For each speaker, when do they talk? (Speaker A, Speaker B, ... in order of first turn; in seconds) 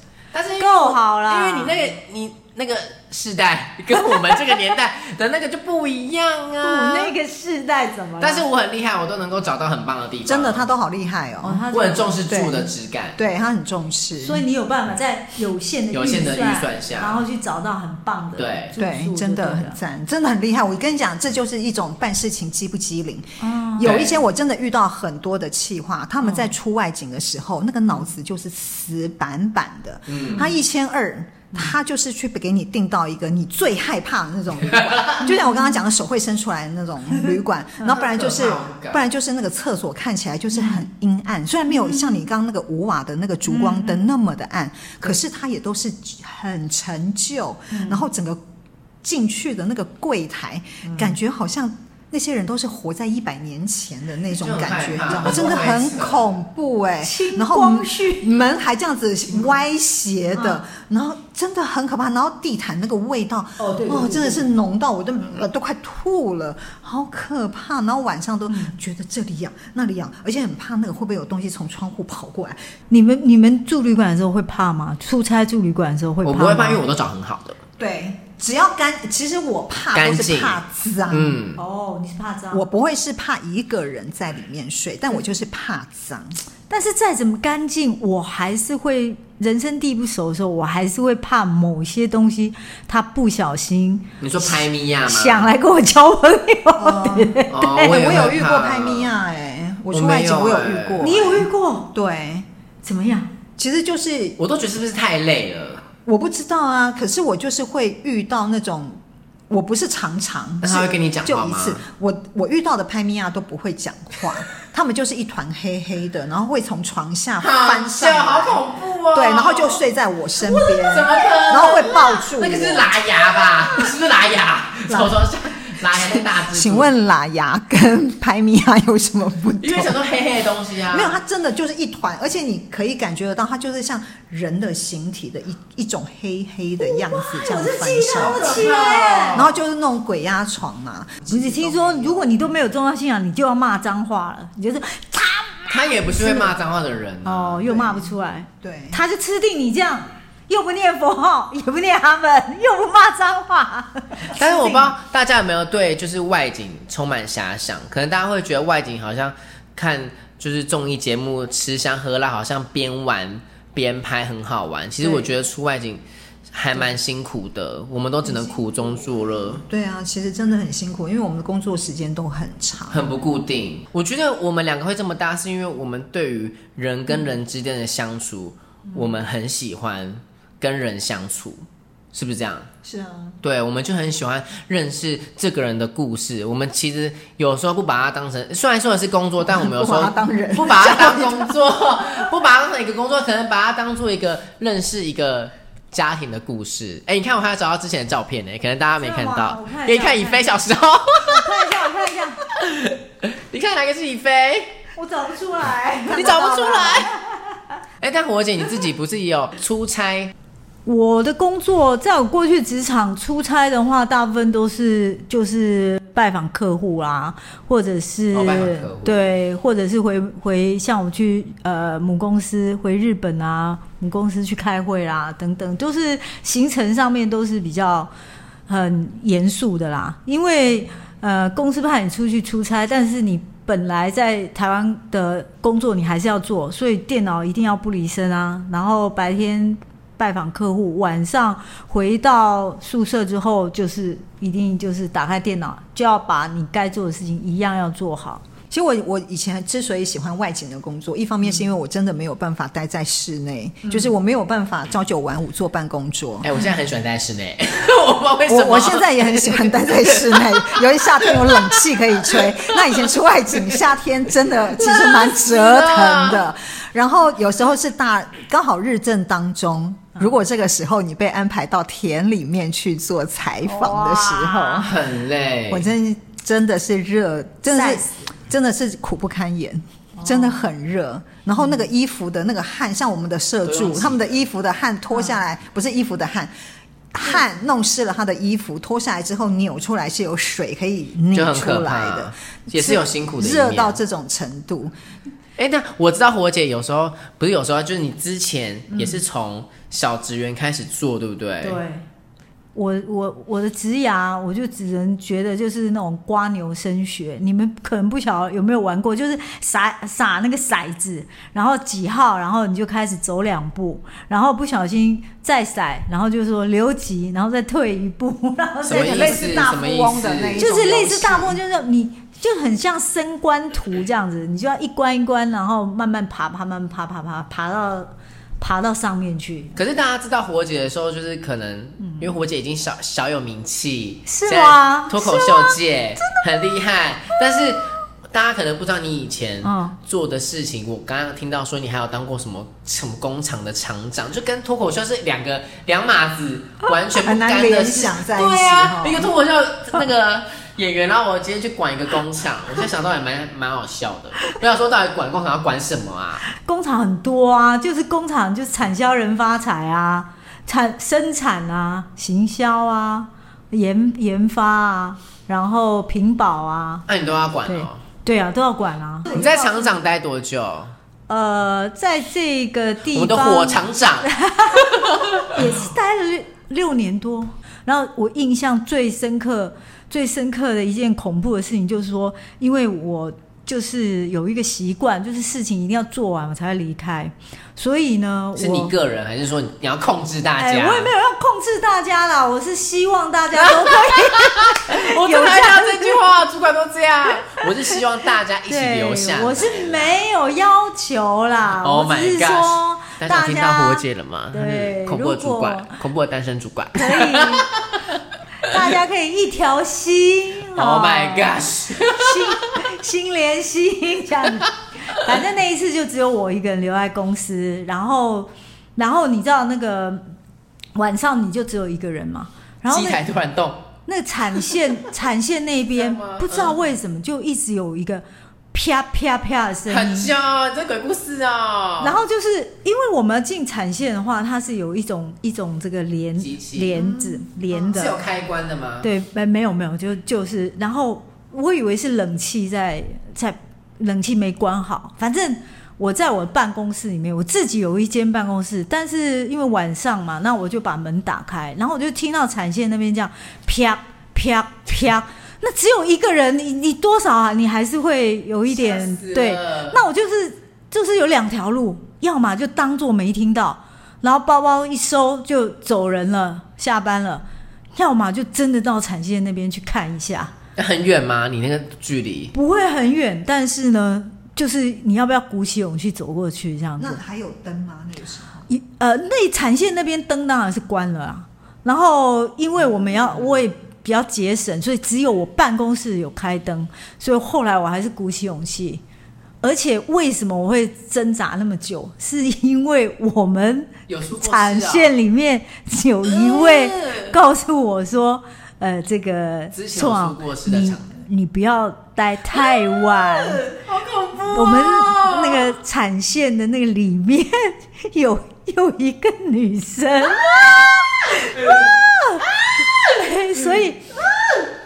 Speaker A: 0.3-7.1, 8.2-10.7, 11.7-13.2, 15.9-17.2, 18.4-18.7, 23.8-24.2, 30.1-30.5, 34.7-35.2, 38.0-39.0, 54.3-56.3, 76.2-77.6, 79.9-80.6, 81.1-81.6, 94.2-95.5, 97.5-99.1, 99.9-101.4, 104.4-105.8, 110.6-111.8, 117.4-119.8, 120.6-126.9, 129.6-131.2, 138.1-139.5, 145.7-147.6, 154.3-166.0, 166.5-169.6, 172.9-182.7, 183.4-201.9, 202.4-204.8, 206.1-207.1, 208.0-210.3, 218.3-219.2, 256.4-261.7, 262.4-262.9, 264.8-266.5, 274.8-275.9, 283.6-284.2, 291.3-294.0, 295.6-301.8, 318.8-320.7, 329.8-356.4, 367.1-368.0, 369.3-370.9, 373.1-375.7, 388.6-391.1, 393.5-400.2, 401.8-408.8, 410.8-412.7, 422.9-423.9, 425.9-426.8, 429.9-432.2, 436.4-437.0, 437.9-439.1, 458.7-460.0, 470.8-472.5, 494.1-495.2, 496.2-497.4, 499.7-501.1, 502.5-505.8, 510.5-510.8, 511.5-514.6
Speaker B: 0.6-1.8, 6.6-8.4, 11.4-12.1, 14.2-19.8, 23.4-23.9, 26.2-26.5, 35.2-35.8, 41.7-42.0, 43.5-44.0, 47.7-48.0, 57.0-58.2, 60.4-60.6, 63.6-64.5, 68.5-68.7, 72.9-76.8, 81.5-82.6, 86.7-97.9, 101.0-101.9, 102.8-103.3, 136.8-139.4, 141.3-146.5, 147.2-154.9, 199.0-200.5, 201.2-202.4, 204.9-207.5, 210.8-228.1, 228.7-248.4, 273.6-274.9, 277.7-278.1, 280.2-280.5, 298.9-299.2, 301.6-302.0, 302.7-319.6, 320.6-329.7, 332.0-332.3, 334.3-336.4, 339.6-339.9, 356.5-367.1, 367.7-369.8, 371.3-388.9, 390.6-396.2, 397.5-397.9, 398.7-406.0, 406.9-407.7, 408.6-420.3, 420.9-423.2, 424.1-430.3, 432.0-438.2, 439.0-467.4, 467.9-470.5, 472.5-477.2, 478.7-489.0, 489.6-503.6, 504.5-514.1
Speaker C: 10.2-11.6, 12.3-14.4, 18.8-48.4, 49.0-72.6, 77.8-81.4, 82.5-86.4, 96.8-102.5, 103.6-104.4, 106.0-109.0, 109.5-122.9, 124.9-125.3, 125.9-130.0, 130.9-138.7, 139.3-142.5, 147.6-149.0, 168.2-173.1, 182.8-183.4, 189.4-191.6, 206.1-207.1, 248.7-256.5, 258.5-274.9, 275.7-286.5, 287.1-294.9, 318.9-321.6, 347.1-349.3, 437.0-437.4, 477.0-478.7